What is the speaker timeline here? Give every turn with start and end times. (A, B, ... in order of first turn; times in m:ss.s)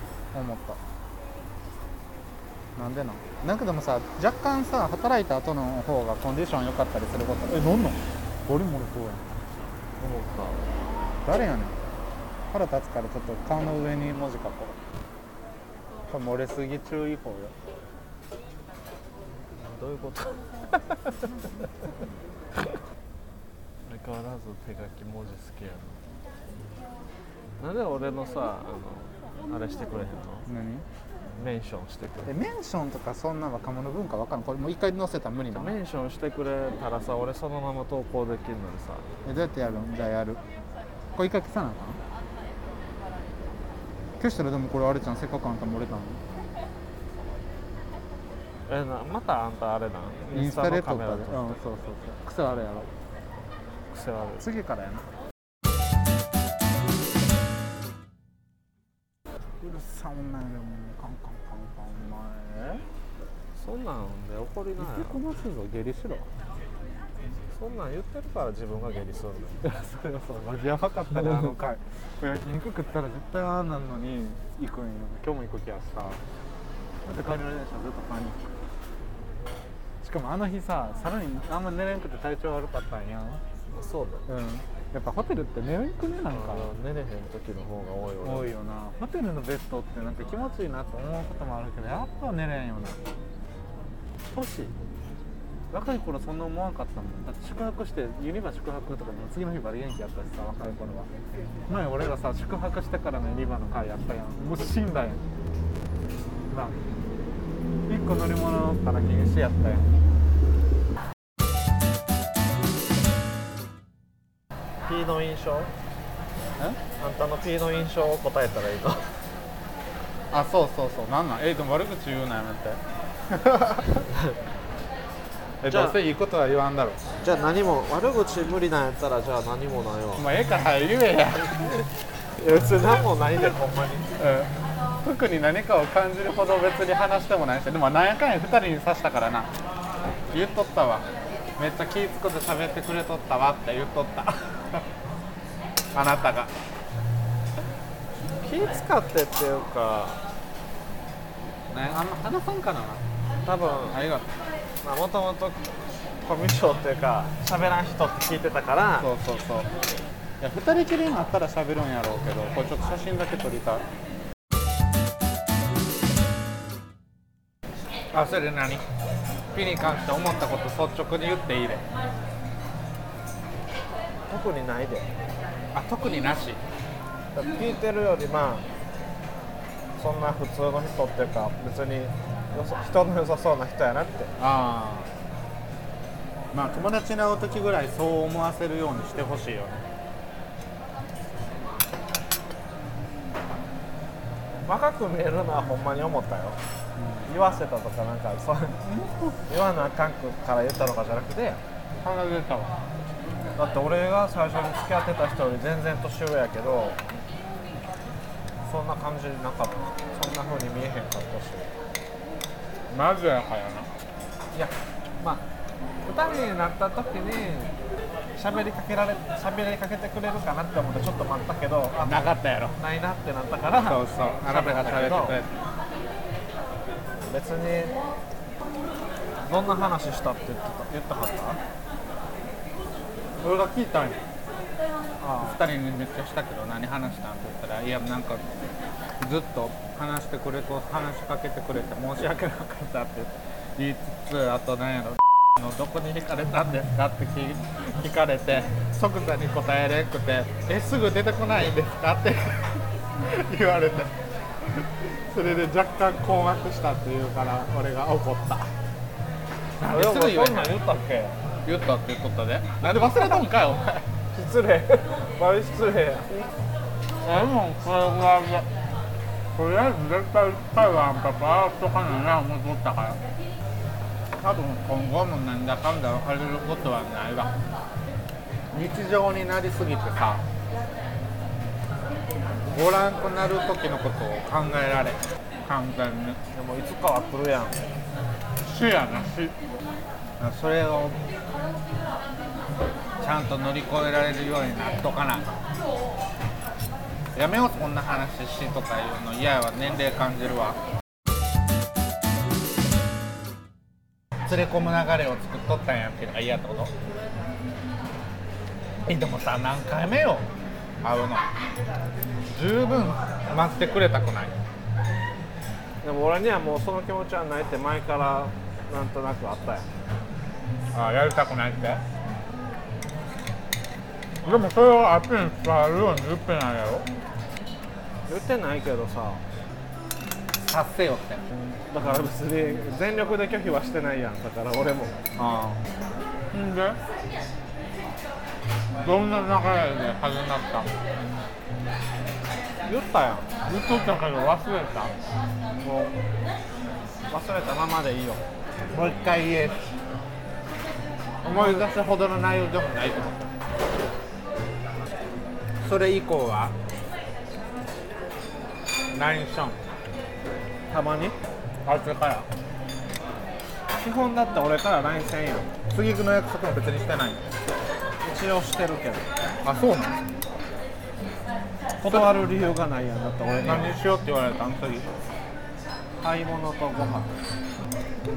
0:00.3-0:00.8 A
0:02.8-0:09.4 A
0:10.0-0:10.7 B
0:11.2-0:11.8 A
0:12.5-0:14.8 A
0:16.1-0:17.5 A
0:19.5-0:21.6 B
0:23.9-0:26.0 B
0:27.6-0:30.5 B
0:30.4-0:30.8 A
0:31.4-0:32.3 B
0:32.2-0:35.7 A
0:35.5-0:39.0 B
0:39.2-0:40.4 A
0:41.1-0:42.0 A
0:44.2-0:46.2 A
0:48.7-0:51.6 B
0:50.3-0:52.9 A
0:53.9-0:54.4 B
0:54.4-0:55.1 A
0:59.6-1:02.8 A
1:03.5-1:05.2 B
1:04.8-1:06.3 A
1:07.5-1:09.6 B
1:09.6-1:16.2 A
1:17.0-1:18.5 A
1:20.0-1:23.4 A
1:23.7-1:24.2 B
1:24.3-1:26.7 A
1:26.3-1:28.5 B
1:28.2-1:33.0 A
1:34.3-1:34.7 A
1:35.7-1:41.1 A
1:41.7-1:45.2 A
1:46.5-1:46.8 A
1:47.9-1:49.9 A
1:54.9-1:55.7 B
1:57.0-1:59.0 B
2:00.3-2:02.8 A
2:03.5-2:03.8 A
2:05.6-2:07.0 A
2:05.6-2:06.0 B
2:07.2-2:10.3 B
2:10.2-2:11.8 A
2:12.4-2:14.1 B
2:14.2-2:14.5 A
2:15.0-2:19.5 A
2:20.3-2:21.0 A
2:21.6-2:24.8 A
2:25.9-2:26.5 A
2:28.4-2:30.2 B
2:31.7-2:33.0 A
2:33.4-2:34.0 B
2:33.9-2:34.3 A
2:34.8-2:35.6 B
2:36.2-2:39.1 B
2:39.0-2:39.7 A
2:40.4-2:43.8 A
2:48.1-2:48.8 A
2:49.5-2:51.8 A
2:54.3-2:55.1 B
2:55.7-2:56.6 A
2:57.3-2:58.6 B
3:00.0-3:04.3 B
3:04.4-3:05.1 A
3:06.5-3:09.8 A
3:14.6-3:16.6 B
3:17.0-3:17.6 A
3:17.3-3:18.8 B
3:18.8-3:19.4 A
3:19.5-3:21.6 B
3:22.0-3:22.7 A
3:23.6-3:27.0 B
3:28.6-3:31.7 B
3:32.9-3:33.9 A
3:34.5-3:35.4 B
3:36.0-3:37.7 B
3:38.4-3:45.4 B
3:42.0-3:42.8 A
3:43.8-3:45.6 A
3:47.2-3:48.0 B
3:49.4-3:51.6 B
3:53.4-3:54.2 A
3:55.2-3:55.6 B
3:55.4-3:58.4 A
3:59.2-4:14.1 A
4:14.7-4:18.7 A
4:19.8-4:20.8 A
4:19.9-4:21.3 B
4:21.6-4:24.0 A
4:24.3-4:26.5 B
4:27.2-4:28.7 A
4:29.5-4:33.2 A
4:34.4-4:37.5 A
4:38.7-4:40.4 A
4:42.6-4:46.4 A
4:46.5-4:47.8 B
4:48.6-4:49.5 A
4:50.4-4:51.2 A
4:53.2-4:55.6 A
4:57.3-5:00.8 A
5:04.4-5:06.9 A
5:09.0-5:10.4 A
5:11.0-5:11.5 A
5:12.5-5:14.5 A
5:16.0-5:19.8 B
5:20.9-5:22.0 A
5:24.4-5:27.1 A
5:28.3-5:29.4 B
5:30.6-5:31.4 A
5:31.9-5:35.1 B
5:35.3-5:35.8 A
5:36.5-5:37.0 A
5:39.0-5:40.9 A
5:42.8-5:43.5 B
5:43.6-5:45.1 A
5:45.8-5:46.1 B
5:47.3-5:48.4 B
5:48.9-5:49.9 A
5:51.4-5:53.4 A
5:51.5-5:51.9 B
5:55.8-5:56.7 A
5:59.1-5:59.8 A
6:00.9-6:01.4 B
6:01.8-6:02.5 A
6:03.9-6:05.7 B
6:05.9-6:07.4 A
6:08.2-6:09.3 B
6:09.6-6:10.2 A
6:12.0-6:14.0 B
6:12.0-6:12.3 A
6:13.6-6:15.1 A
6:16.2-6:17.3 B